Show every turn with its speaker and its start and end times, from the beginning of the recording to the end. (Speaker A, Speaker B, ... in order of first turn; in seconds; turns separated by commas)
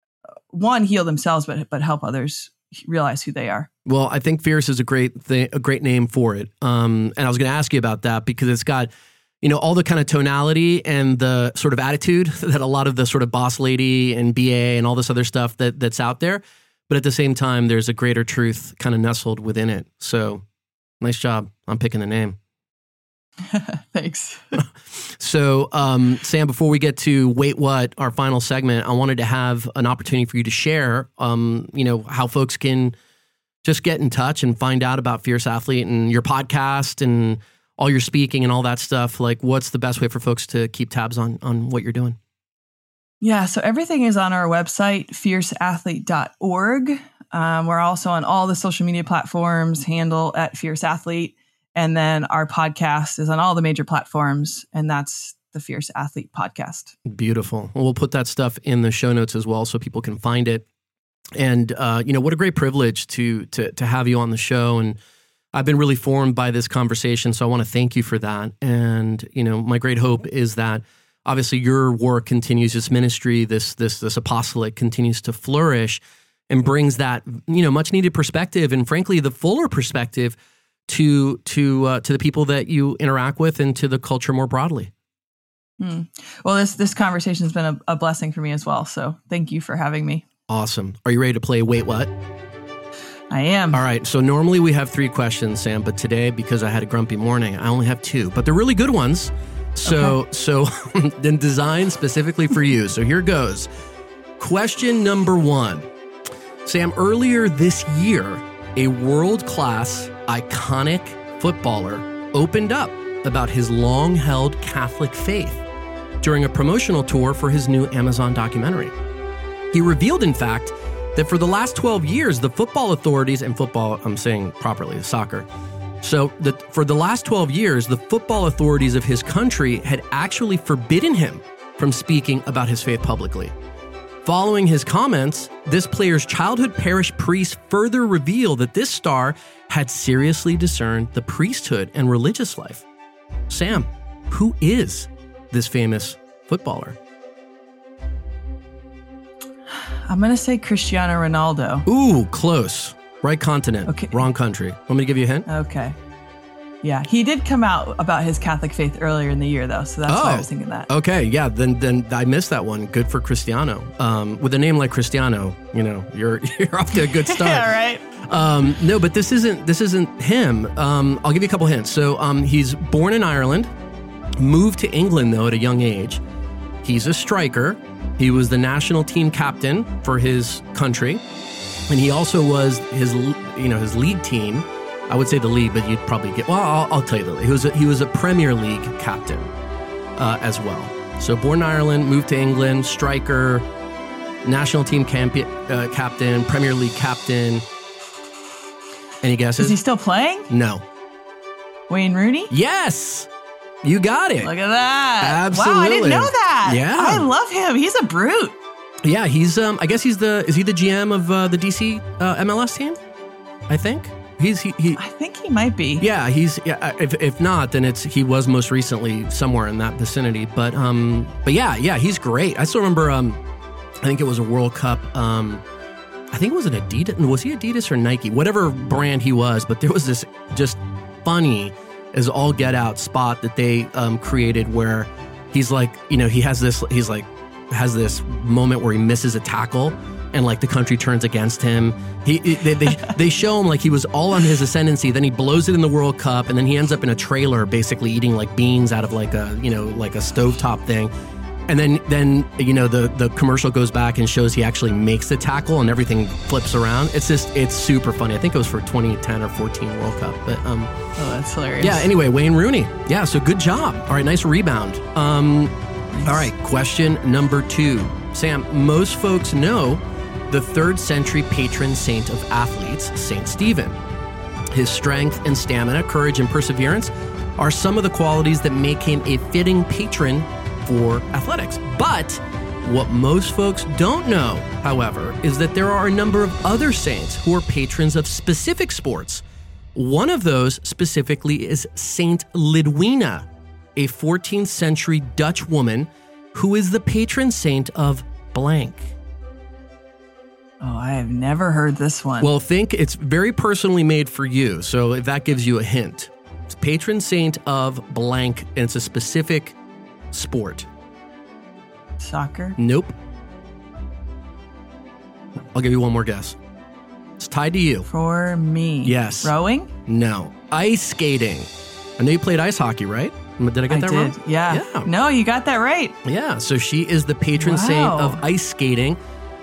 Speaker A: 0.5-3.7, Speaker B: 3.9-8.9, Speaker B: 9.4-20.4, Speaker B: 21.0-22.4, Speaker A: 23.5-24.6, Speaker B: 24.6-33.0, Speaker B: 33.6-42.2, Speaker A: 43.2-56.9, Speaker B: 57.0-60.6, Speaker B: 61.3-65.0, Speaker B: 65.5-80.4, Speaker B: 80.9-84.9, Speaker A: 85.8-90.2, Speaker B: 90.5-92.1, Speaker A: 93.3-93.8, Speaker B: 93.7-103.7, Speaker A: 99.8-100.1, Speaker B: 104.4-105.9, Speaker B: 106.6-115.6, Speaker B: 116.2-118.9, Speaker B: 119.7-125.5, Speaker B: 126.0-133.5, Speaker B: 134.2-142.8, Speaker B: 143.5-147.0, Speaker A: 149.8-151.8, Speaker B: 151.9-155.5, Speaker A: 153.9-154.2, Speaker A: 155.5-156.0, Speaker A: 156.8-160.9, Speaker B: 160.1-173.7, Speaker A: 167.2-168.0, Speaker B: 174.4-176.2, Speaker B: 176.8-181.2, Speaker B: 181.9-189.5, Speaker B: 190.2-193.7, Speaker B: 194.4-197.6, Speaker B: 199.2-199.8, Speaker A: 199.6-200.5, Speaker B: 200.5-200.8, Speaker A: 201.9-202.5, Speaker B: 202.5-203.3, Speaker B: 203.8-204.5, Speaker A: 204.4-208.6, Speaker B: 205.2-207.2, Speaker B: 209.0-213.0, Speaker B: 213.7-215.0, Speaker A: 215.0-216.0, Speaker B: 216.0-223.4, Speaker B: 224.0-225.6, Speaker B: 226.3-251.1, Speaker B: 251.7-260.9, Speaker A: 261.1-262.1, Speaker B: 261.8-274.0, Speaker B: 274.7-289.4, Speaker B: 289.9-299.1, Speaker A: 300.8-302.5, Speaker B: 302.4-309.8, Speaker B: 310.3-310.9, Speaker A: 312.2-312.8, Speaker B: 312.8-313.1, Speaker B: 315.7-316.6, Speaker B: 317.4-318.1, Speaker A: 318.1-319.9, Speaker B: 319.0-319.5, Speaker B: 320.1-325.1, Speaker A: 323.9-326.2, Speaker B: 326.2-329.2, Speaker A: 327.6-328.4